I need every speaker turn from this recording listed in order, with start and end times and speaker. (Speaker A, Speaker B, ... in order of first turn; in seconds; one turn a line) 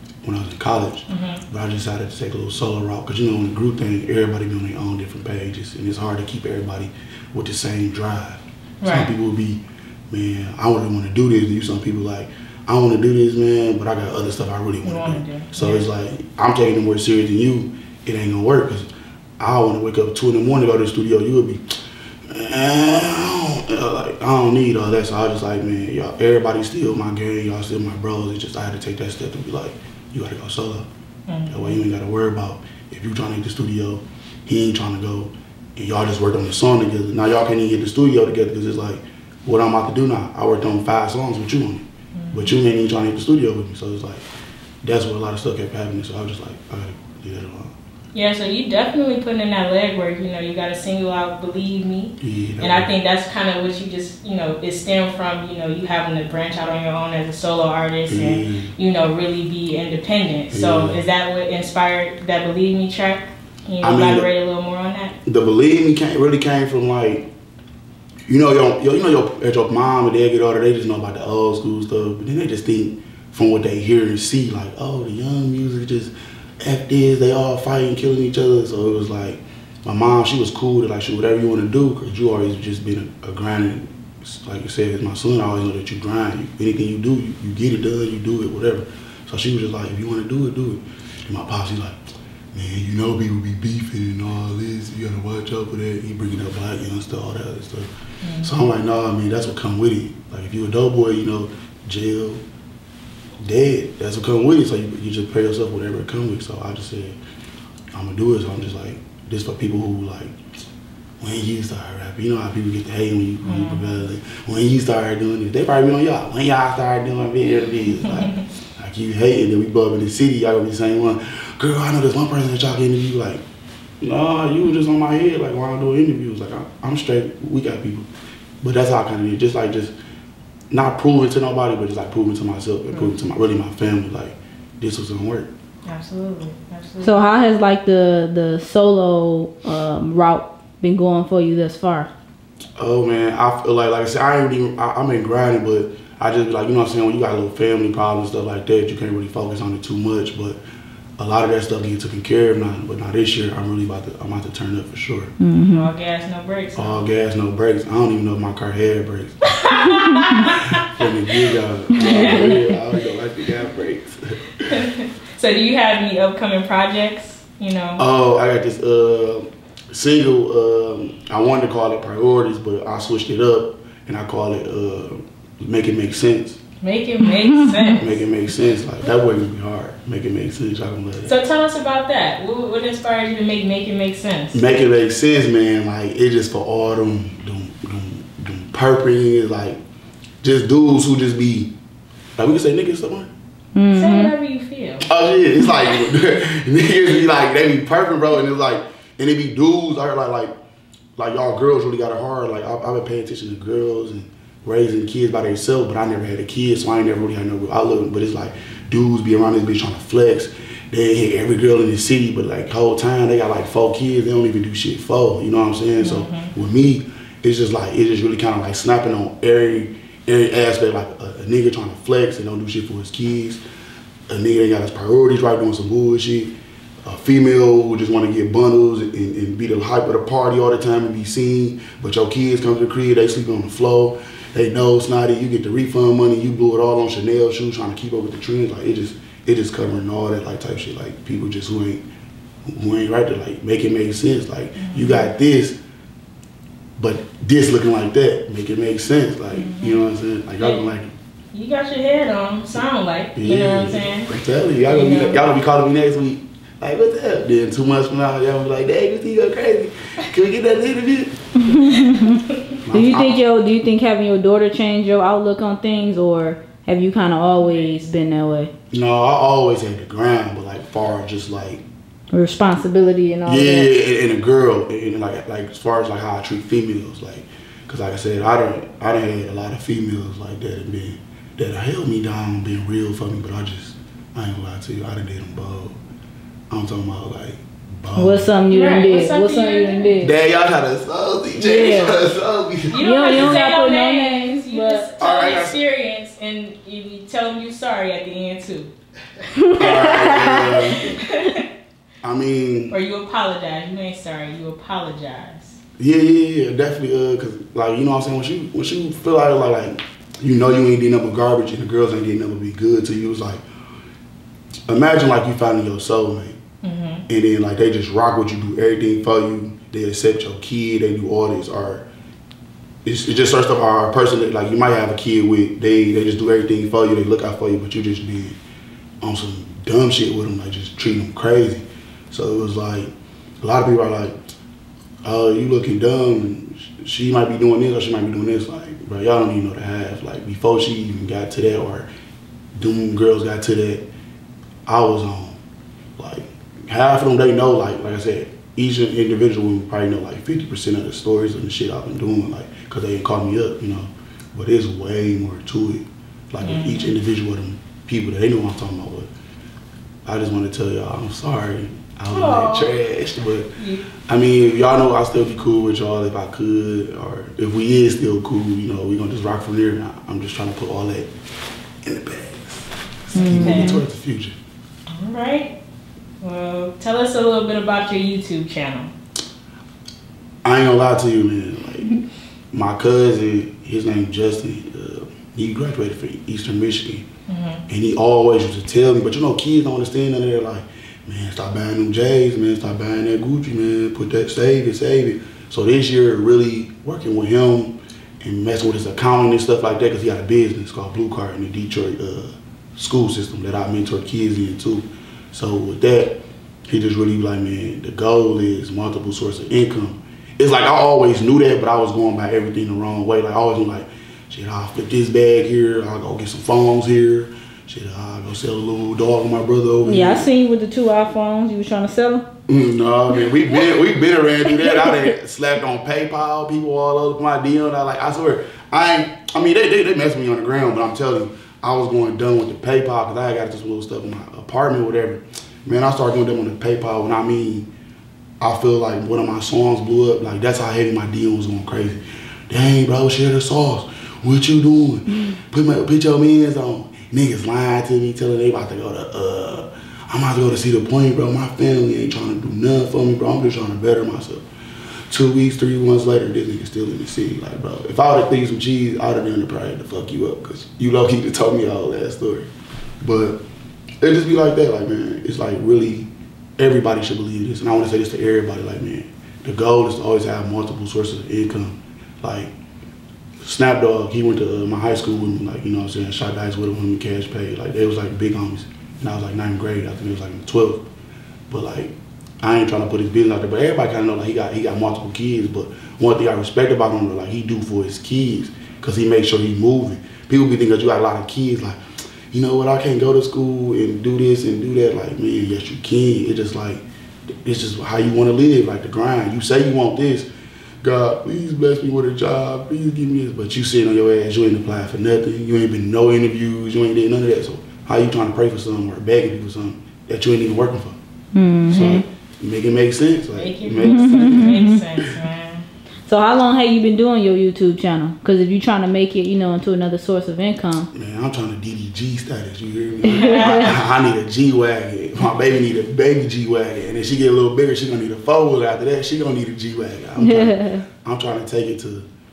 Speaker A: 0.2-18.9
Speaker B: 1.1-1.4
Speaker B: 8.8-9.1
Speaker B: 14.8-15.8
Speaker A: 19.4-21.6
Speaker A: 22.3-30.9
Speaker B: 31.3-31.8
Speaker A: 31.5-44.2
Speaker B: 42.1-42.6
Speaker A: 44.8-47.7
Speaker B: 48.1-65.1
Speaker A: 52.2-52.9
Speaker A: 58.1-58.7
Speaker A: 60.5-61.0
Speaker A: 63.8-64.3
Speaker A: 65.2-67.2
Speaker A: 68.3-92.0
Speaker A: 92.5-97.9
Speaker B: 98.2-98.5
Speaker A: 98.4-102.4
Speaker A: 103.4-107.2
Speaker A: 107.9-110.3
Speaker A: 111.2-123.4
Speaker B: 113.4-113.9
Speaker B: 118.0-118.3
Speaker A: 124.0-128.1
Speaker A: 128.6-129.9
Speaker A: 130.7-135.5
Speaker B: 135.8-137.1
Speaker C: 137.0-142.1
Speaker A: 142.8-150.6
Speaker A: 151.2-155.3
Speaker C: 155.4-155.9
Speaker B: 155.7-157.0
Speaker A: 156.8-159.4
Speaker B: 159.6-160.8
Speaker A: 160.8-164.7
Speaker C: 161.9-162.7
Speaker B: 162.0-162.5
Speaker B: 164.7-168.0
Speaker A: 168.0-176.6
Speaker B: 176.8-178.2
Speaker C: 177.3-177.8
Speaker A: 178.0-181.4
Speaker B: 181.2-184.6
Speaker A: 184.5-189.8
Speaker A: 190.4-191.7
Speaker A: 192.4-193.3
Speaker C: 193.7-194.3
Speaker B: 193.9-195.1
Speaker A: 195.0-200.5
Speaker A: 201.2-223.6
Speaker B: 216.0-216.5
Speaker A: 224.3-226.5
Speaker A: 227.0-242.0
Speaker A: 242.7-245.8
Speaker B: 244.8-245.3
Speaker A: 247.0-251.1
Speaker B: 249.5-250.0
Speaker B: 250.6-250.9
Speaker B: 251.5-254.3
Speaker A: 253.3-261.4
Speaker B: 254.8-255.5
Speaker C: 261.6-262.4
Speaker B: 261.8-262.4
Speaker A: 262.8-263.4
Speaker C: 262.9-268.7
Speaker B: 267.6-268.0
Speaker A: 268.9-271.8
Speaker C: 272.3-273.9
Speaker A: 273.4-286.0
Speaker A: 286.7-288.5
Speaker C: 288.1-290.3
Speaker B: 288.7-290.1
Speaker A: 290.2-293.6
Speaker C: 291.6-292.2
Speaker B: 292.9-298.9
Speaker C: 293.0-295.1
Speaker A: 295.2-295.8
Speaker C: 299.6-300.7
Speaker A: 299.8-301.2
Speaker B: 299.8-301.6
Speaker A: 302.2-302.9
Speaker B: 302.9-305.8
Speaker A: 306.0-313.6
Speaker A: 314.9-316.6
Speaker B: 316.8-317.2
Speaker A: 317.3-322.1
Speaker A: 323.0-328.6
Speaker A: 329.2-333.1
Speaker A: 333.6-334.3
Speaker A: 335.2-342.1
Speaker A: 342.8-344.0
Speaker A: 344.9-345.6
Speaker A: 346.2-359.3
Speaker B: 356.6-357.1
Speaker A: 360.2-363.7
Speaker B: 362.3-362.9
Speaker B: 363.8-364.1
Speaker A: 364.3-371.3
Speaker A: 372.0-374.6
Speaker C: 373.3-374.0
Speaker B: 373.4-374.0
Speaker B: 375.1-375.7
Speaker B: 376.4-379.1
Speaker A: 380.6-382.1
Speaker A: 382.7-387.2
Speaker B: 387.5-387.8
Speaker A: 387.9-406.4
Speaker A: 406.9-420.5
Speaker C: 420.0-422.5
Speaker A: 422.7-437.9
Speaker C: 424.6-425.3
Speaker A: 438.6-454.6
Speaker A: 455.3-462.7
Speaker A: 463.2-463.6
Speaker A: 464.2-472.7
Speaker A: 473.6-481.0
Speaker A: 481.7-492.0
Speaker A: 492.5-497.0
Speaker A: 497.6-500.5
Speaker A: 501.0-511.1
Speaker C: 511.5-512.2
Speaker B: 511.9-512.2
Speaker A: 511.9-514.8
Speaker B: 513.5-515.9
Speaker C: 514.0-515.0
Speaker C: 516.3-521.1
Speaker A: 521.1-532.2
Speaker C: 523.3-523.9
Speaker B: 523.3-524.0
Speaker C: 530.4-531.0